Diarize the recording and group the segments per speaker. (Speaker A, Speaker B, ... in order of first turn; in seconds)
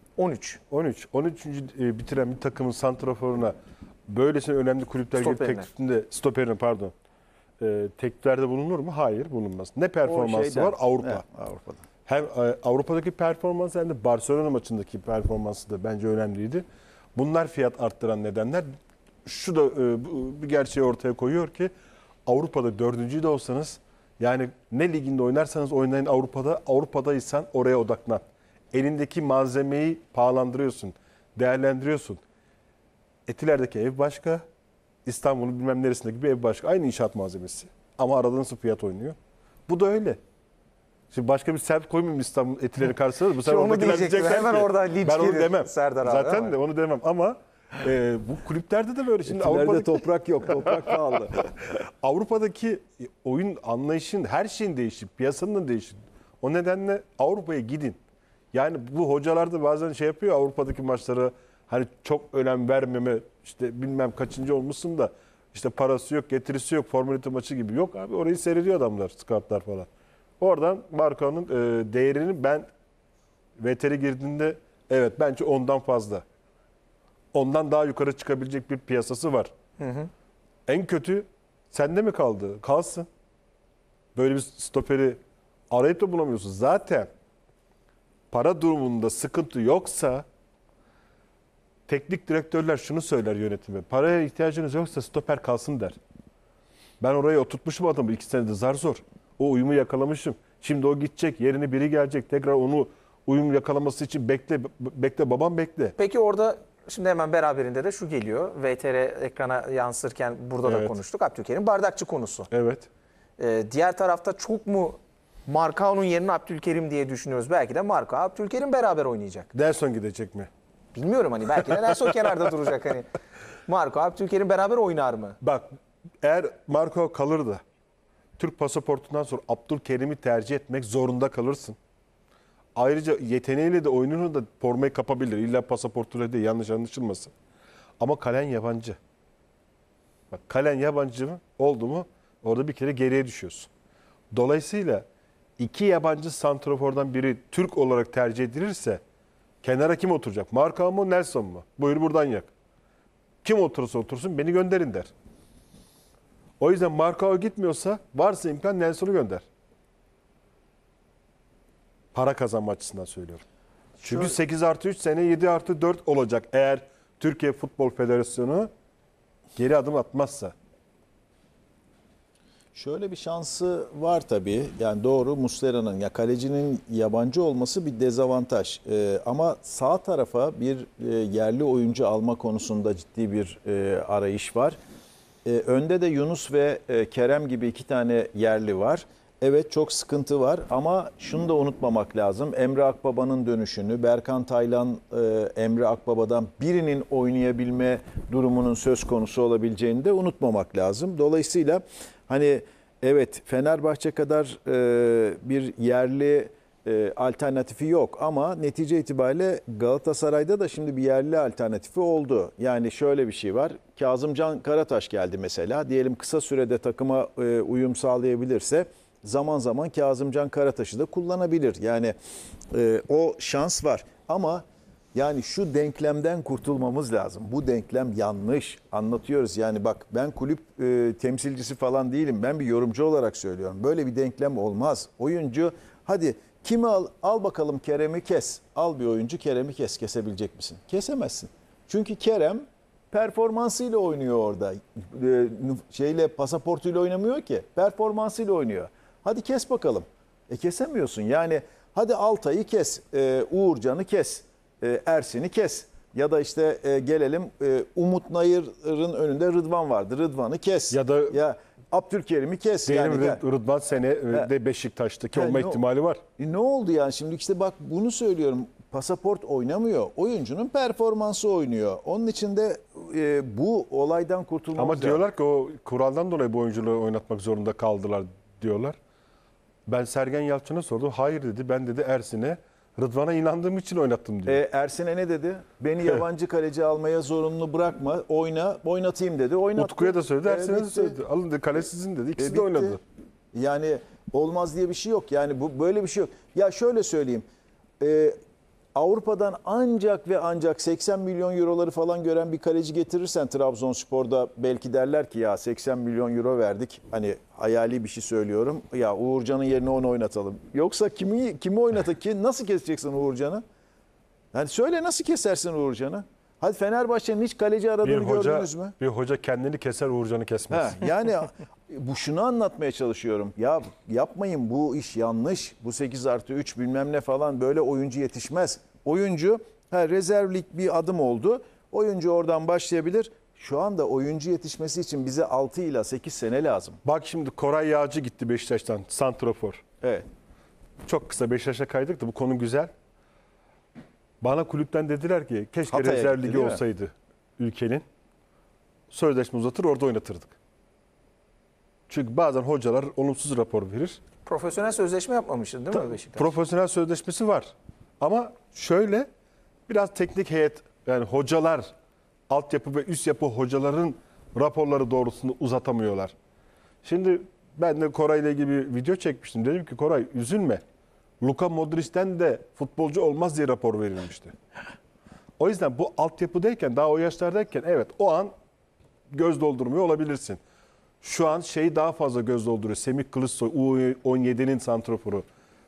Speaker A: 0.2-0.6, 5.2-5.7, 43.4-46.6, 79.8-80.1, 106.0-112.5, 113.4-119.5, 120.9-123.1, 123.7-125.4, 354.4-356.5
Speaker B: 0.7-3.5, 4.1-6.9, 7.6-11.2, 12.1-18.7, 19.2-21.7, 22.2-32.2, 33.3-34.4, 35.0-40.2, 41.1-50.0, 50.6-50.9, 52.0-58.0, 58.5-69.9, 70.4-72.7, 73.6-76.2, 77.3-79.5, 80.7-83.1, 84.1-85.2, 85.7-87.1, 88.3-90.2, 91.9-96.0, 97.0-106.0, 110.6-110.9, 112.5-112.9, 119.5-120.5, 125.4-125.7, 126.2-127.6, 128.4-131.8, 132.8-137.3, 138.0-139.0, 140.3-143.7, 144.3-145.1, 145.6-149.0, 149.6-152.5, 153.4-155.1, 156.6-159.4, 162.1-163.4, 164.0-168.7, 169.6-170.5, 260.9-261.4, 262.9-266.2, 274.7-279.0, 279.9-284.6, 289.8-293.0, 318.0-321.0, 337.0-339.8, 341.0-342.9, 344.4-348.0, 349.1-350.6, 352.1-354.2, 355.9-359.3, 359.9-361.9, 362.5-366.3, 367.0-370.8, 371.4-374.5, 375.6-378.5, 379.3-380.6, 381.2-385.4
Speaker C: 10.0-11.8, 49.2-51.6, 164.1-164.3, 172.7-184.8, 185.4-222.1, 222.7-263.4, 265.3-265.8, 266.4-275.2, 284.4-291.1, 292.4-293.0, 293.5-297.4, 298.0-298.4, 298.9-313.6, 314.5-318.9, 320.7-337.0, 340.0-340.2, 345.9-346.8